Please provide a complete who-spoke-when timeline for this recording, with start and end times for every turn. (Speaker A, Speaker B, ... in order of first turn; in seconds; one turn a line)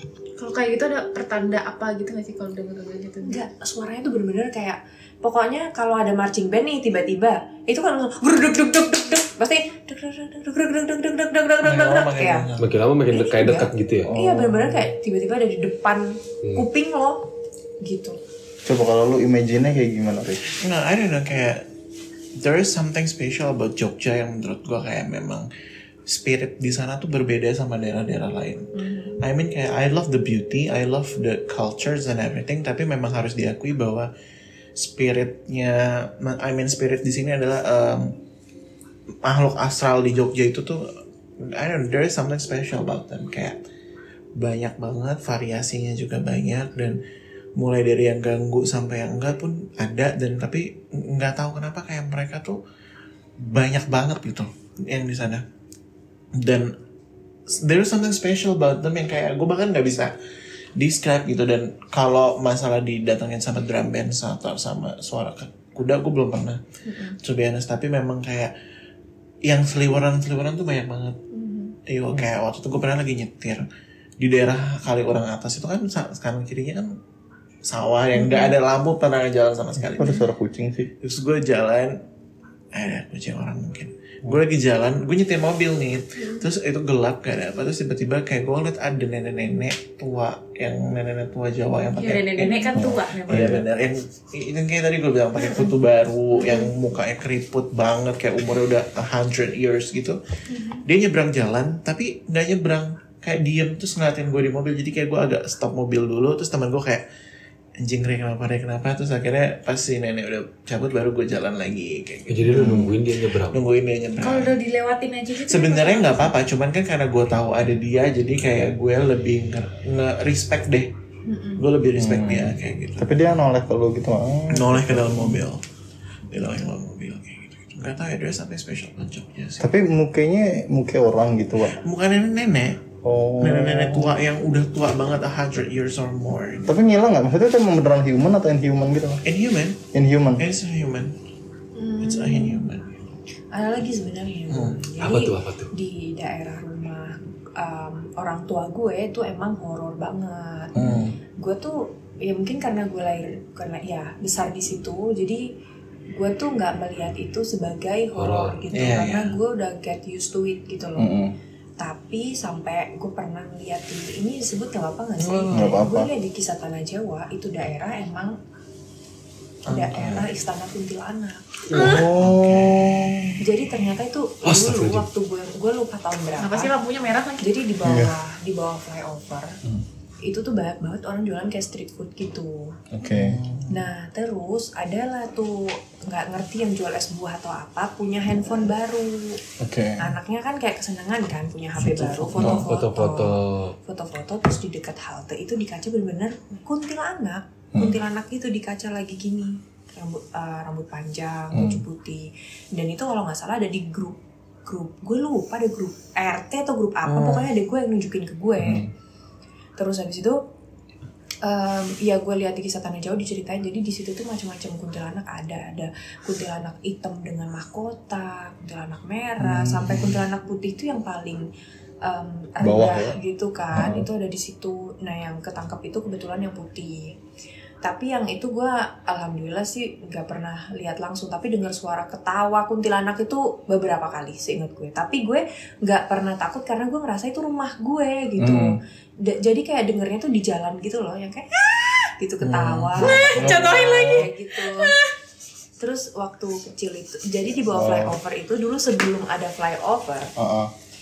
Speaker A: 0.4-3.4
Speaker B: 3.2-12.5
Speaker C: 11.6-12.7
Speaker D: 12.6-14.1
Speaker B: 13.1-17.2
Speaker E: 14.0-14.9
Speaker B: 17.8-18.2
Speaker E: 18.7-20.4
Speaker C: 20.6-21.6
Speaker C: 22.4-25.5
Speaker C: 26.1-34.1
Speaker B: 28.7-29.2
Speaker C: 34.8-38.1
Speaker C: 39.2-43.6
Speaker C: 44.4-47.0
Speaker C: 47.6-52.6
Speaker C: 53.4-55.4
Speaker C: 56.4-56.7
Speaker C: 57.5-60.1
Speaker C: 60.8-66.6
Speaker B: 66.9-67.2
Speaker C: 67.2-68.5
Speaker C: 69.5-71.2
Speaker B: 71.3-71.7
Speaker C: 71.9-73.7
Speaker C: 74.2-77.0
Speaker C: 77.7-80.2
Speaker B: 78.2-78.5
Speaker E: 79.8-80.9
Speaker C: 81.0-82.0
Speaker C: 82.7-100.2
Speaker A: 92.0-93.7
Speaker E: 92.7-93.6
Speaker B: 96.4-96.7
Speaker B: 100.5-100.8
Speaker C: 100.7-107.0
Speaker C: 107.8-114.5
Speaker D: 112.3-113.7
Speaker E: 112.5-112.9
Speaker A: 114.2-116.4
Speaker C: 115.5-120.9
Speaker B: 121.3-121.6
Speaker C: 121.6-123.2
Speaker E: 122.0-125.5
Speaker C: 124.5-125.6
Speaker C: 126.3-129.7
Speaker E: 129.6-131.8
Speaker C: 131.7-132.8
Speaker E: 133.0-134.1
Speaker C: 133.4-136.7
Speaker E: 136.6-139.2
Speaker C: 139.2-139.8
Speaker E: 139.9-140.4
Speaker C: 140.4-141.1
Speaker B: 141.8-142.7
Speaker C: 142.0-143.0
Speaker B: 143.5-150.8
Speaker C: 144.5-144.8
Speaker D: 145.0-145.7
Speaker C: 150.8-151.2
Speaker B: 151.4-155.4
Speaker B: 156.1-161.1
Speaker D: 158.2-158.7
Speaker C: 158.7-159.4
Speaker E: 161.0-161.3
Speaker B: 161.8-168.3
Speaker C: 165.2-165.8
Speaker E: 165.5-166.1
Speaker C: 169.7-170.3
Speaker B: 169.7-172.0
Speaker D: 171.7-172.0
Speaker E: 171.7-173.4
Speaker C: 171.8-173.3
Speaker B: 173.4-176.7
Speaker D: 174.4-175.1
Speaker A: 176.4-177.5
Speaker B: 177.4-179.6
Speaker E: 177.8-178.2
Speaker B: 180.2-182.8
Speaker E: 182.9-183.4
Speaker C: 183.1-183.7
Speaker B: 183.7-189.4
Speaker E: 189.6-190.2
Speaker B: 190.0-208.9
Speaker D: 191.8-193.8
Speaker E: 192.4-192.6
Speaker E: 197.7-198.0
Speaker E: 201.5-201.8
Speaker C: 207.1-207.5
Speaker E: 208.6-208.9
Speaker B: 209.8-210.4
Speaker B: 211.4-221.4
Speaker E: 219.4-220.2
Speaker B: 222.0-227.1
Speaker E: 222.6-223.2
Speaker E: 223.7-224.1
Speaker B: 227.8-244.9
Speaker E: 238.4-238.8
Speaker C: 242.4-243.6
Speaker A: 243.0-245.1
Speaker E: 243.2-244.2
Speaker B: 245.8-250.3
Speaker E: 247.7-248.2
Speaker E: 250.4-250.7